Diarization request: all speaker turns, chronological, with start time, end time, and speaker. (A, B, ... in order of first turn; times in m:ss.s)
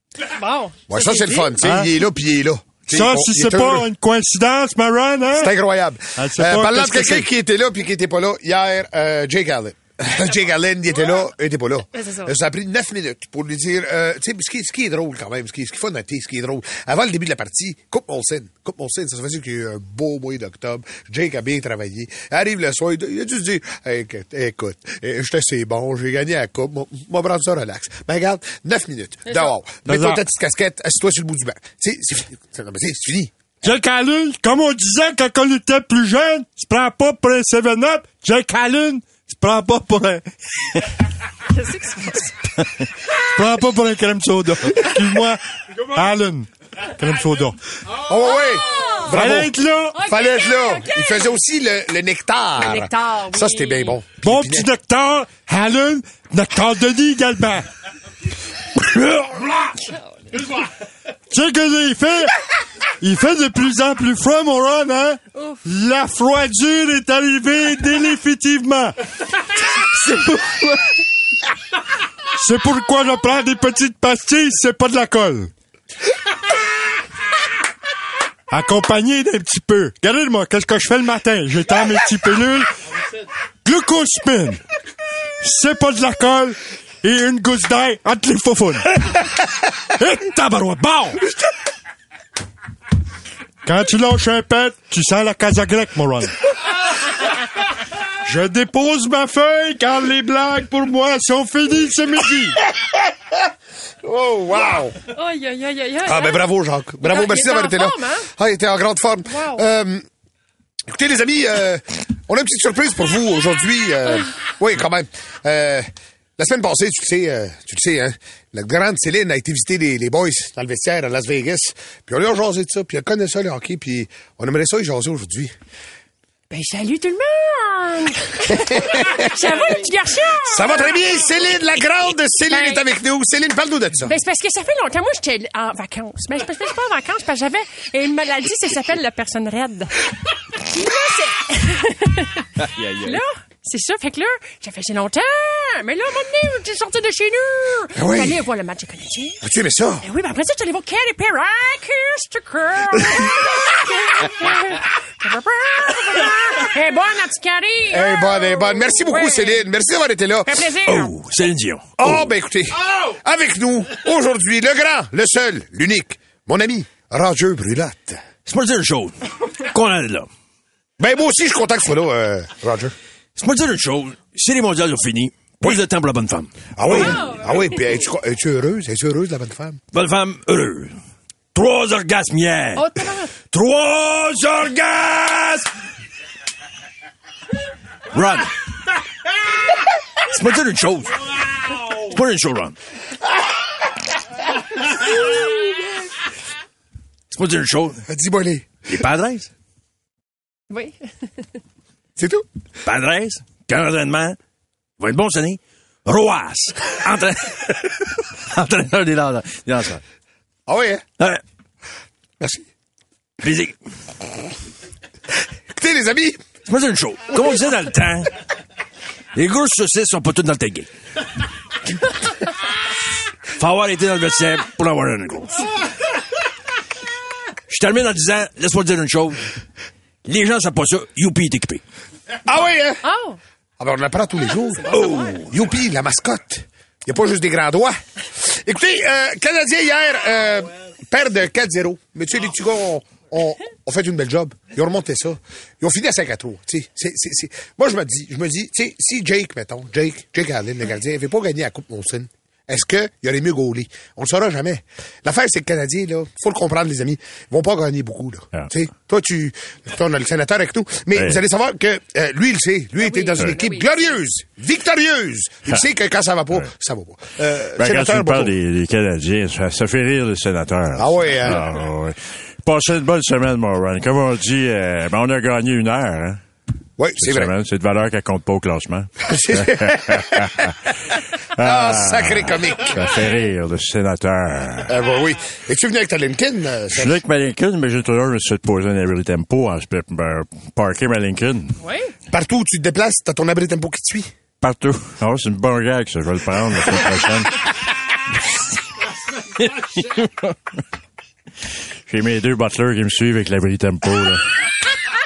0:00.2-0:01.6 A
0:00.9-0:03.8 B
0:01.6-0:01.9 C
0:02.9-0:05.5 C
0:05.4-0:33.3 B
0:06.2-0:07.3 C
0:11.9-0:12.3 A
0:29.2-0:29.5 A
0:29.8-0:30.2 C
0:33.6-0:40.2 C
0:41.5-0:42.4 A
0:43.2-0:47.6 C
0:48.0-0:54.7 B
0:48.1-0:49.2 A
0:49.1-0:50.0 C
0:49.9-0:51.3 A
0:52.6-0:54.0 A
0:54.2-0:57.7 C
0:58.8-0:59.5 C
1:01.3-1:02.3 C
1:03.0-1:08.9 C
1:05.3-1:05.6 A
1:12.4-1:15.5 C
1:18.5-1:22.7 C
1:23.6-1:24.6 C
1:25.4-1:29.3 C
1:30.0-1:31.3 C
1:33.6-1:36.3 C
1:38.2-1:42.6 C
1:44.0-1:44.9 B
1:45.0-1:46.5 A
1:46.0-1:50.0 B
1:47.0-1:48.3 A
1:49.2-1:49.6 A
1:50.9-2:05.5 B
2:06.5-2:10.9 A
2:08.6-2:09.2 B
2:10.4-2:14.2 B
2:12.5-2:12.9 A
2:14.0-2:29.4 A
2:22.6-2:23.2 D
2:27.9-2:28.4 B
2:29.4-2:30.0 B
2:30.0-2:39.6 A
2:37.9-2:40.7 B
2:40.4-2:41.2 A
2:40.9-2:41.3 D
2:41.3-2:41.8 E
2:42.0-2:48.2 B
2:48.5-2:49.1 D
2:49.7-2:50.3 D
2:51.0-2:52.9 B
2:53.4-2:57.2 D
2:56.8-2:59.8 B
2:56.9-2:57.8 A
2:59.9-3:00.9 D
3:01.5-3:02.8 D
3:02.8-3:03.3 A
3:03.5-3:05.7 D
3:08.1-3:08.5 D
3:10.3-3:11.2 D
3:11.9-3:12.8 D
3:17.3-3:18.0 D
3:18.1-3:18.8 B
3:18.9-3:19.5 D
3:20.7-3:21.0 A
3:22.2-3:22.4 B
3:22.8-3:24.4 D
3:25.0-3:30.0 D
3:30.7-3:31.0 B
3:33.4-3:33.7 D
3:35.7-3:36.4 B
3:36.7-3:38.3 D
3:39.4-3:40.9 D
3:39.7-3:40.1 E
3:43.6-3:45.4 D
3:47.7-3:49.4 D
3:50.3-3:51.8 D
3:52.4-3:53.0 B
3:53.0-3:53.4 A
3:53.8-4:28.5 B
4:21.1-4:21.4 E
4:23.0-4:24.1 A
4:27.8-4:36.4 E
4:30.9-4:31.6 B
4:37.0-4:37.5 B
4:37.2-4:40.8 E
4:39.2-4:40.5 B
4:41.6-4:44.9 E
4:41.6-4:43.1 B
4:44.8-4:47.2 B
4:46.9-4:51.7 E
4:51.8-4:52.1 A
4:52.3-4:54.3 B
4:54.6-4:57.6 E
5:02.1-5:04.4 E